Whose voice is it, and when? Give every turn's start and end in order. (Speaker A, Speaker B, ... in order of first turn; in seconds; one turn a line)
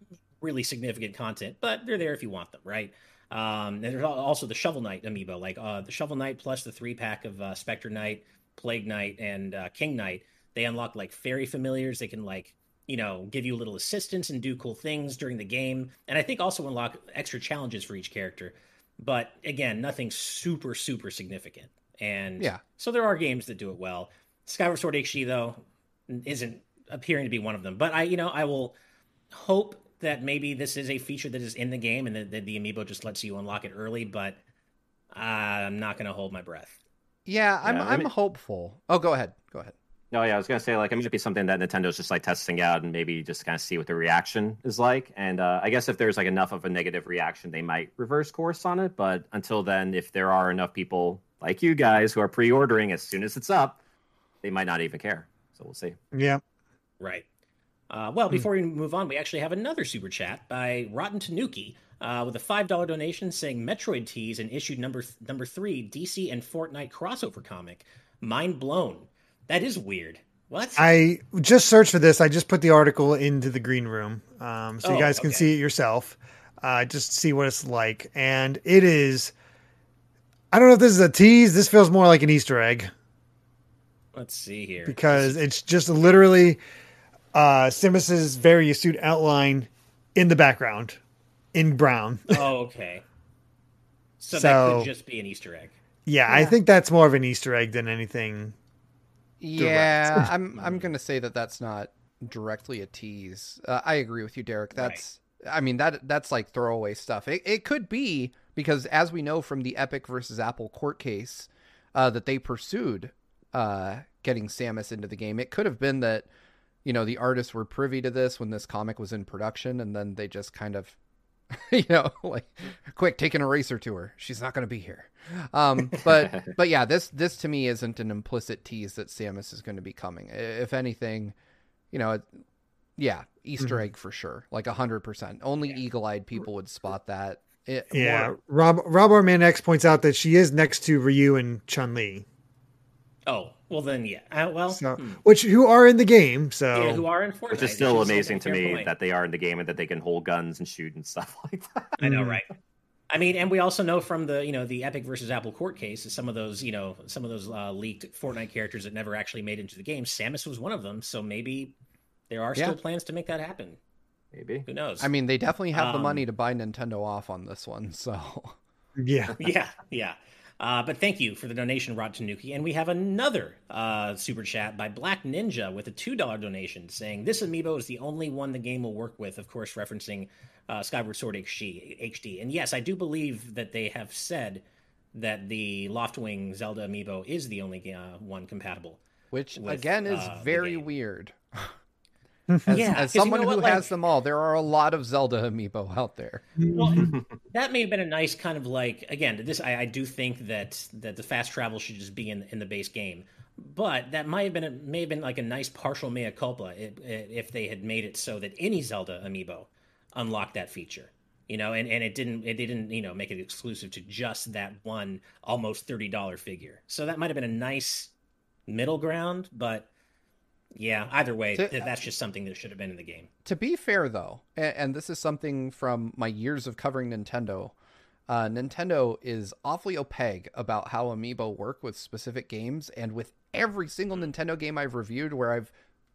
Speaker A: 0.4-28.8
Speaker A: 29.3-34.4
Speaker A: 35.1-36.8
Speaker B: 37.3-39.7
Speaker C: 37.6-38.1
Speaker C: 40.1-53.8
Speaker C: 54.4-56.0
Speaker D: 56.1-56.4
Speaker A: 57.0-57.3
Speaker A: 57.9-70.8
Speaker D: 70.8-79.3
Speaker A: 74.8-75.5
Speaker D: 80.5-82.9
Speaker A: 84.2-85.4
Speaker D: 84.9-86.6
Speaker D: 87.3-91.0
Speaker D: 91.5-92.4
Speaker A: 92.3-93.0
Speaker A: 94.2-95.8
Speaker D: 94.3-94.9
Speaker D: 96.1-98.5
Speaker B: 96.3-96.6
Speaker B: 99.4-116.3
Speaker D: 99.6-100.3
Speaker A: 104.8-105.0
Speaker B: 116.8-121.0
Speaker B: 121.5-131.3
Speaker C: 126.2-126.5
Speaker B: 131.9-132.3
Speaker B: 133.0-138.3
Speaker D: 137.9-142.2
Speaker A: 143.3-145.2
Speaker D: 144.7-147.1
Speaker A: 146.7-148.9
Speaker C: 147.5-151.9
Speaker A: 152.0-152.5
Speaker D: 152.0-152.4
Speaker A: 153.1-161.8
Speaker A: 162.3-163.8
Speaker C: 164.3-164.7
Speaker A: 164.7-165.1
Speaker B: 165.0-168.6
Speaker A: 165.7-166.2
Speaker D: 169.0-169.3
Speaker A: 169.4-184.6
Speaker A: 185.1-189.0
Speaker B: 189.3-191.7
Speaker A: 189.6-190.9
Speaker B: 192.7-196.4
Speaker A: 192.7-193.9
Speaker D: 196.6-197.1
Speaker A: 196.7-218.1
Speaker A: 218.7-219.9
Speaker A: 220.8-223.3
Speaker B: 221.6-221.8
Speaker B: 223.4-227.7
Speaker B: 228.3-235.7